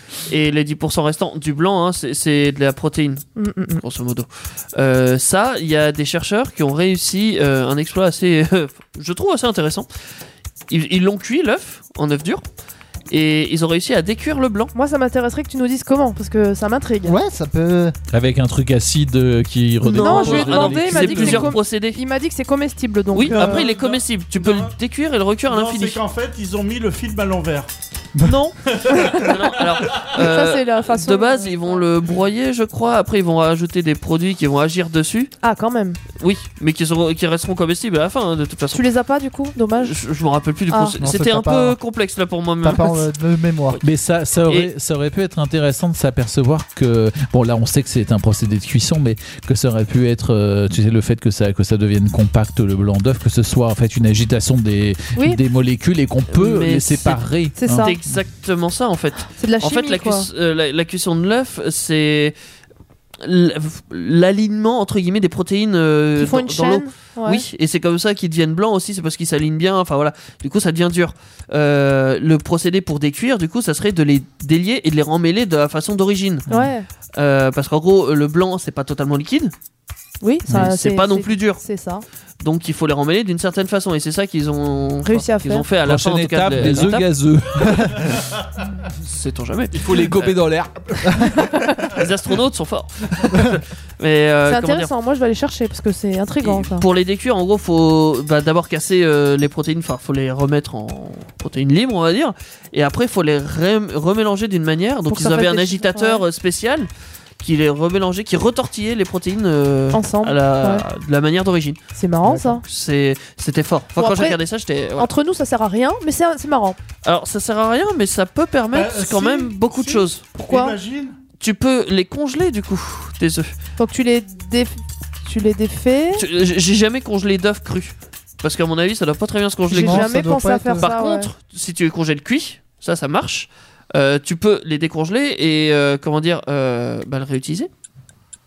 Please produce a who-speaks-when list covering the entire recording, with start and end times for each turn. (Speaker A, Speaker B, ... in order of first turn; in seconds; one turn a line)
Speaker A: 0.3-3.3
Speaker B: 3.4-3.8
Speaker A: 3.8-9.9
Speaker A: 10.7-12.4
Speaker A: 13.1-14.7
Speaker B: 14.7-17.1
Speaker C: 17.0-18.0
Speaker D: 18.1-21.6
Speaker A: 19.8-22.0
Speaker B: 20.0-23.7
Speaker A: 23.1-26.0
Speaker E: 23.3-24.7
Speaker E: 25.5-27.7
Speaker A: 28.2-28.6
Speaker E: 28.7-30.1
Speaker A: 29.1-35.3
Speaker B: 30.1-31.9
Speaker B: 35.4-36.0
Speaker A: 36.2-38.9
Speaker B: 38.7-40.0
Speaker A: 39.8-43.1
Speaker C: 41.0-41.8
Speaker C: 42.6-43.8
Speaker D: 43.8-58.1
Speaker A: 56.3-62.4
Speaker B: 57.6-58.0
Speaker B: 59.4-60.3
Speaker A: 63.2-76.5
Speaker B: 66.2-67.5
Speaker B: 76.5-76.9
Speaker A: 77.2-79.5
Speaker B: 80.2-82.0
Speaker A: 80.5-81.6
Speaker A: 82.4-87.1
Speaker B: 85.0-85.7
Speaker D: 85.8-88.2
Speaker B: 86.7-87.0
Speaker A: 89.0-90.4
Speaker D: 89.7-91.3
Speaker B: 91.5-91.8
Speaker A: 91.9-94.9
Speaker B: 94.5-96.8
Speaker A: 96.4-106.9
Speaker B: 105.1-106.2
Speaker A: 107.4-115.1
Speaker B: 109.9-110.8
Speaker B: 112.0-112.6
Speaker B: 114.0-114.4
Speaker B: 115.0-116.8
Speaker A: 117.0-120.2
Speaker E: 118.7-121.2
Speaker B: 120.3-120.8
Speaker A: 121.4-123.5
Speaker B: 123.8-126.2
Speaker A: 126.2-130.3
Speaker C: 129.7-131.0
Speaker B: 129.7-131.3
Speaker A: 130.8-137.7